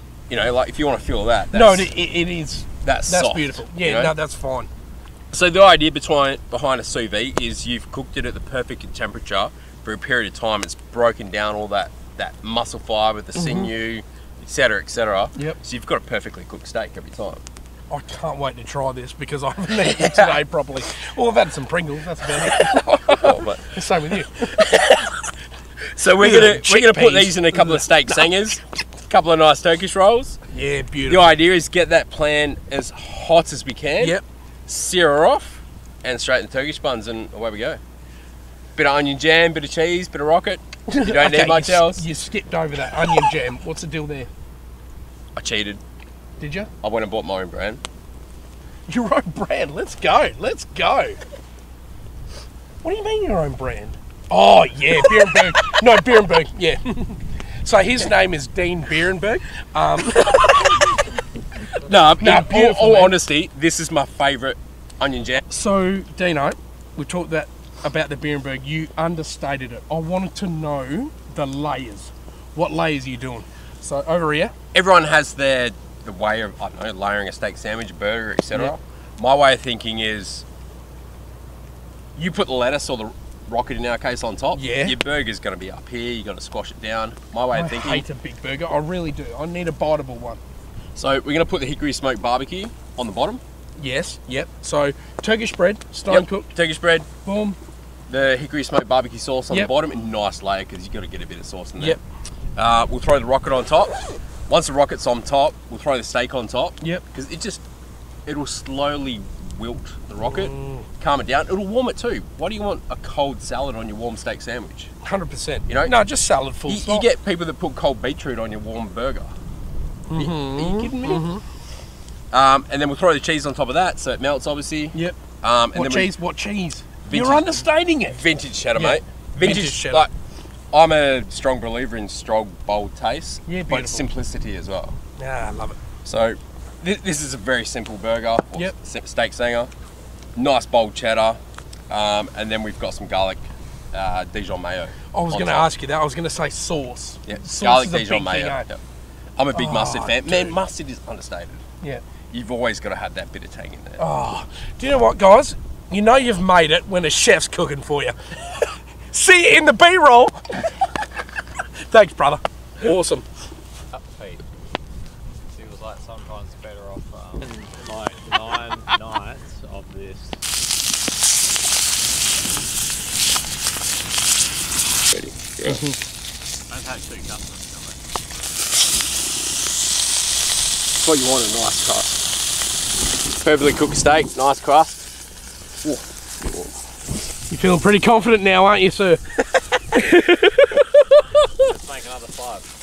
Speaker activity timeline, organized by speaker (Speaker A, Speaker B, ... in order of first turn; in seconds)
Speaker A: 0.3-1.9, 2.8-4.1, 5.3-17.4, 19.8-20.4, 22.5-23.8, 24.4-25.0, 26.0-30.4, 31.1-37.8, 38.8-42.0, 45.4-45.8, 46.8-47.8, 60.2-60.5, 61.9-65.4, 74.7-80.4, 82.2-88.0, 90.9-93.4, 96.1-97.1, 98.1-102.0, 102.5-107.6, 108.2-114.9, 115.7-116.0, 116.7-119.3, 120.1-121.3, 122.3-126.1, 127.0-127.5, 128.1-130.1, 130.7-134.9, 136.0-139.7, 140.3-141.4, 141.9-145.7, 147.2-148.8, 149.4-151.6, 152.3-154.0, 175.1-175.8, 181.0-182.2, 183.4-185.0, 185.8-186.7
Speaker B: 1.5-4.7, 13.3-13.7, 17.9-24.8, 26.0-28.3, 30.5-31.4, 40.9-44.3, 46.4-46.7, 48.9-51.2, 52.8-60.9, 62.2-63.2, 65.5-74.5, 84.5-84.9, 87.5-90.4, 93.8-96.5, 97.2-97.6, 110.2-110.8, 115.0-117.1, 120.1-121.4, 125.7-128.2, 128.7-130.1, 133.5-134.1, 135.2-135.8, 145.1-148.7, 149.5-150.6, 154.0-160.7, 161.9-163.2, 175.6-176.0, 187.5-189.2, 189.9-191.0
Speaker C: 163.9-164.4, 165.5-170.4, 176.7-177.9, 191.7-192.7